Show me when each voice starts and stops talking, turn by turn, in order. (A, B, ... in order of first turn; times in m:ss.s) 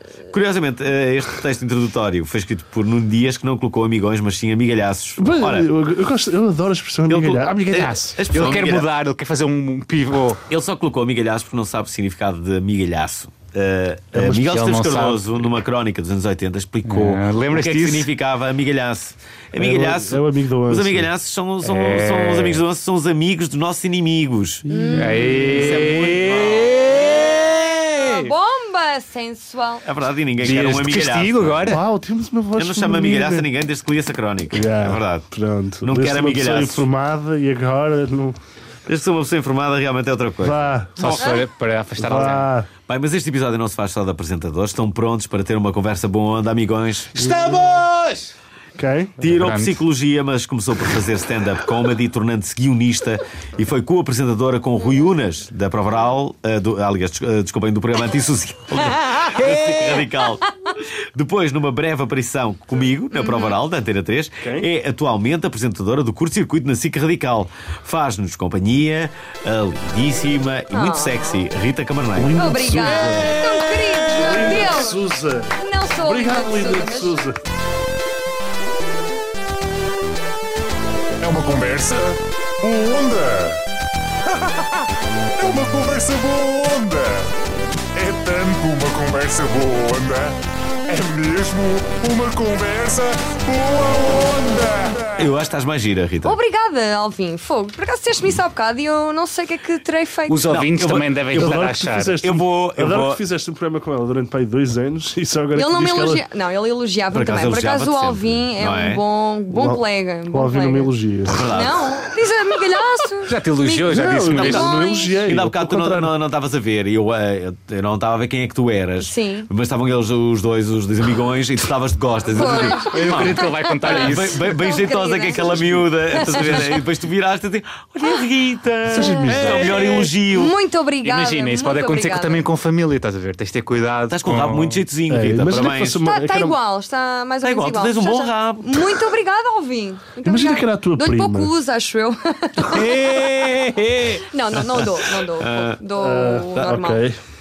0:00.3-0:05.7 A
0:05.2-0:08.5 B
0:07.1-0:08.9 A
0:07.7-0:10.4 C
0:10.5-0:24.6 A
0:14.1-0:15.2 C
0:16.8-0:18.1 C
0:19.5-0:21.1 B
0:21.6-0:22.6 C
0:24.6-0:25.8 B
0:24.7-0:25.4 D
0:24.9-0:28.3 C
0:25.4-0:26.9 A
0:26.9-0:29.8 D
0:29.8-0:31.8 A
0:30.4-0:31.8 C
0:31.7-0:33.5 B
0:32.6-0:35.3 A
0:34.5-0:38.4 B
0:35.8-0:36.8 A
0:38.8-0:41.3 A
0:40.4-0:41.0 B
0:41.0-0:42.5 C
0:41.2-0:41.5 D
0:42.0-0:42.7 B
0:42.0-0:47.3 A
0:47.2-0:48.3 C
0:47.2-0:47.8 B
0:48.8-0:49.1 B
0:49.2-1:13.1 A
0:49.3-0:49.8 C
0:59.3-1:00.0 C
1:03.1-1:03.6 D
1:04.4-1:04.7 B
1:10.7-1:11.5 D
1:12.1-1:13.4 B
1:12.4-1:17.2 D
1:14.1-1:17.4 B
1:21.2-1:23.6 E
1:24.3-1:24.6 E
1:25.4-1:27.3 E
1:27.9-1:35.1 E
1:35.0-1:36.4 A
1:36.2-1:40.4 D
1:40.3-1:42.2 C
1:40.5-1:41.7 A
1:41.3-1:46.2 B
1:42.2-1:43.2 A
1:45.5-1:50.9 D
1:47.1-1:49.0 A
1:49.5-1:51.5 B
1:51.2-1:51.9 A
1:51.5-1:55.2 D
1:53.3-1:54.8 C
1:53.8-1:56.1 B
1:55.2-2:10.5 A
1:59.0-1:59.5 D
2:02.3-2:06.7 D
2:02.4-2:04.5 C
2:08.8-2:10.0 B
2:08.9-2:12.4 D
2:09.3-2:10.1 C
2:11.0-2:14.8 C
2:14.1-2:16.0 A
2:15.1-2:16.6 B
2:16.0-2:23.0 D
2:17.4-2:19.0 A
2:20.2-2:21.5 B
2:22.6-2:24.1 C
2:22.9-2:25.8 A
2:24.3-2:27.0 D
2:26.0-2:27.2 B